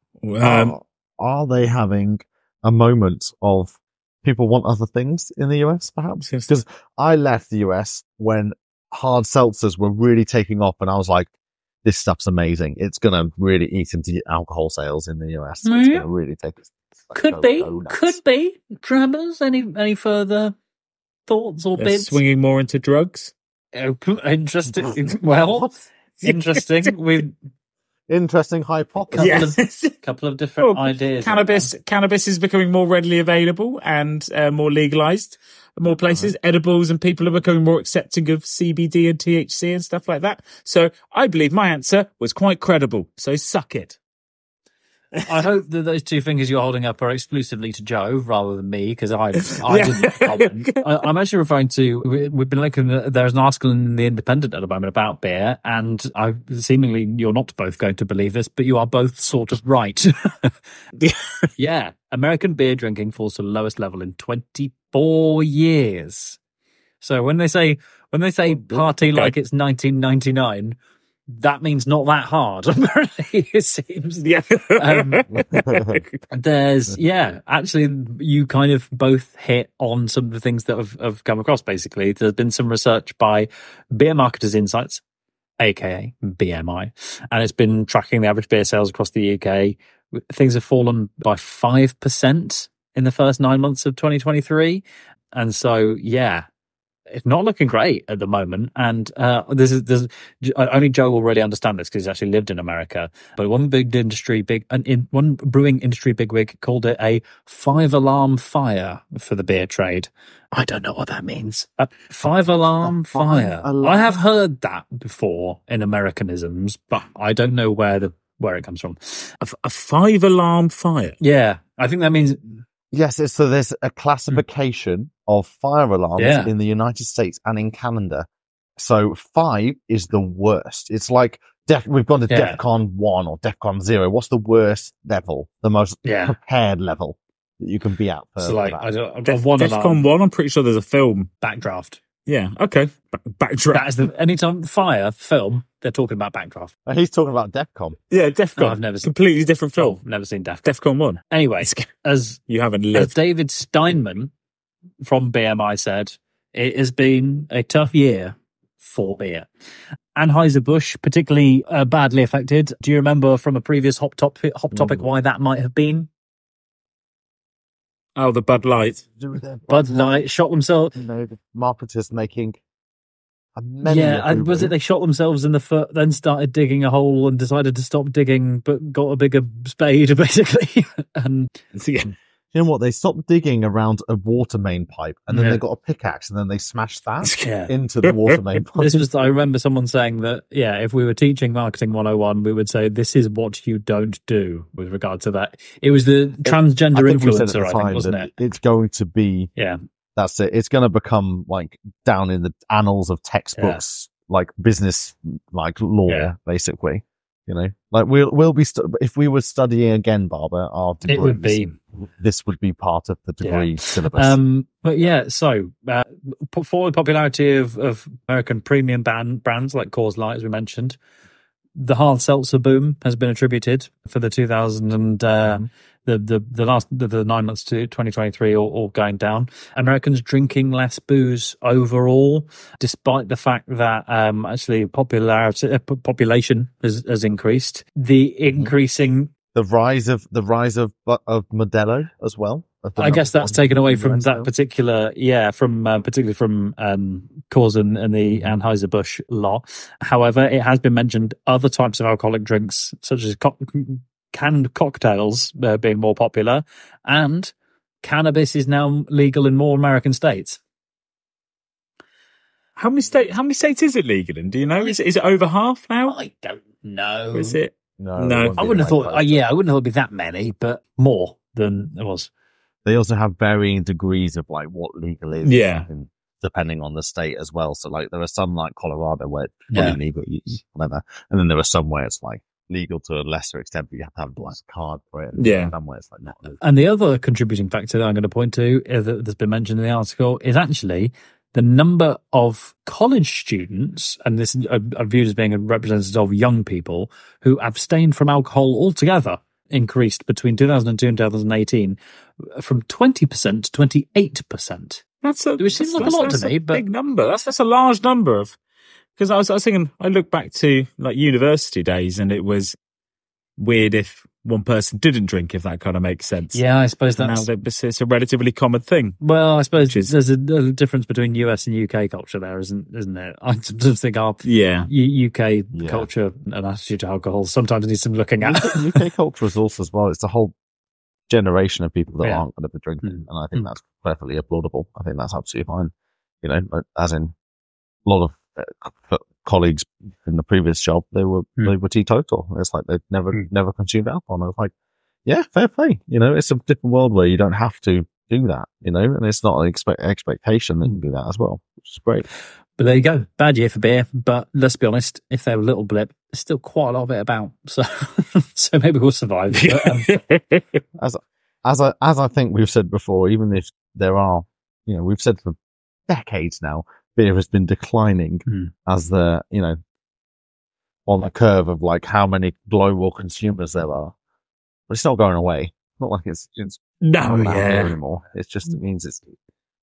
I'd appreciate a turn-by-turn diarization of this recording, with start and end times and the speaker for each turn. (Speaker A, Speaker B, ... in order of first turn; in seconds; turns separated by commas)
Speaker A: 0.2-0.8, Speaker B: 0.4-11.3, Speaker A: 6.2-6.5, Speaker B: 11.8-18.2, Speaker C: 15.7-16.1, Speaker C: 17.1-20.6, Speaker C: 21.3-22.2, Speaker A: 21.8-23.3, Speaker C: 23.7-27.3, Speaker A: 26.2-26.9, Speaker B: 28.1-29.5, Speaker C: 29.1-31.7, Speaker A: 29.1-29.9, Speaker A: 30.6-44.0, Speaker A: 45.2-45.4, Speaker C: 45.3-60.5, Speaker A: 49.5-50.8, Speaker A: 61.0-61.5, Speaker C: 61.6-66.4, Speaker C: 67.0-70.8, Speaker A: 68.6-69.3, Speaker C: 71.3-75.3, Speaker A: 74.2-76.2, Speaker B: 75.7-76.0, Speaker C: 76.3-85.0, Speaker C: 85.6-96.5, Speaker C: 97.1-119.3, Speaker B: 112.8-114.2, Speaker A: 119.4-121.2, Speaker C: 121.2-122.6, Speaker B: 122.9-128.3, Speaker C: 126.2-126.5, Speaker B: 128.8-138.9, Speaker C: 132.3-132.6, Speaker C: 136.0-136.4, Speaker C: 138.4-140.0, Speaker A: 139.3-141.3, Speaker C: 141.4-142.0, Speaker A: 142.3-143.9, Speaker C: 143.7-146.7, Speaker B: 146.9-148.0, Speaker A: 148.1-150.0, Speaker C: 148.6-149.1, Speaker C: 149.8-150.7, Speaker A: 150.7-151.9, Speaker C: 151.3-152.4, Speaker A: 152.5-153.1, Speaker C: 152.9-154.3, Speaker C: 155.0-159.5, Speaker C: 160.2-166.1, Speaker B: 164.7-165.0, Speaker A: 168.2-169.0, Speaker B: 169.2-170.2, Speaker C: 169.7-170.9, Speaker B: 171.0-172.6, Speaker B: 173.6-174.7, Speaker C: 173.8-181.5, Speaker A: 181.7-182.1, Speaker B: 182.5-189.1, Speaker C: 185.3-185.6, Speaker C: 187.4-187.7, Speaker A: 188.1-188.4, Speaker C: 188.8-198.3, Speaker B: 196.4-199.5, Speaker B: 200.2-211.6, Speaker C: 203.6-203.8, Speaker C: 211.1-211.8, Speaker B: 212.2-214.4, Speaker C: 213.4-221.0, Speaker C: 221.8-239.3, Speaker B: 239.5-244.5, Speaker C: 243.0-260.6, Speaker A: 262.8-266.1, Speaker C: 266.1-267.6, Speaker A: 267.3-268.6, Speaker B: 268.0-269.4, Speaker C: 268.6-272.3, Speaker B: 272.9-286.6, Speaker A: 275.4-275.9, Speaker C: 279.7-280.0, Speaker A: 285.4-285.7, Speaker C: 286.6-302.0, Speaker C: 302.5-305.0, Speaker A: 305.2-308.6, Speaker C: 305.6-306.8, Speaker A: 309.2-312.8, Speaker A: 313.6-316.6, Speaker C: 316.5-317.5, Speaker A: 317.1-319.2, Speaker C: 319.2-328.9, Speaker A: 319.9-320.1, Speaker A: 324.4-324.9, Speaker B: 325.7-326.1, Speaker B: 328.4-330.5, Speaker B: 331.3-335.9, Speaker C: 333.0-333.7, Speaker B: 336.4-337.3, Speaker B: 338.1-344.7, Speaker B: 345.3-352.3, Speaker C: 352.8-360.1, Speaker A: 359.5-360.8, Speaker B: 361.0-365.6, Speaker B: 366.1-369.8, Speaker C: 368.5-368.7, Speaker B: 371.1-374.1, Speaker B: 374.9-379.3, Speaker A: 377.0-377.9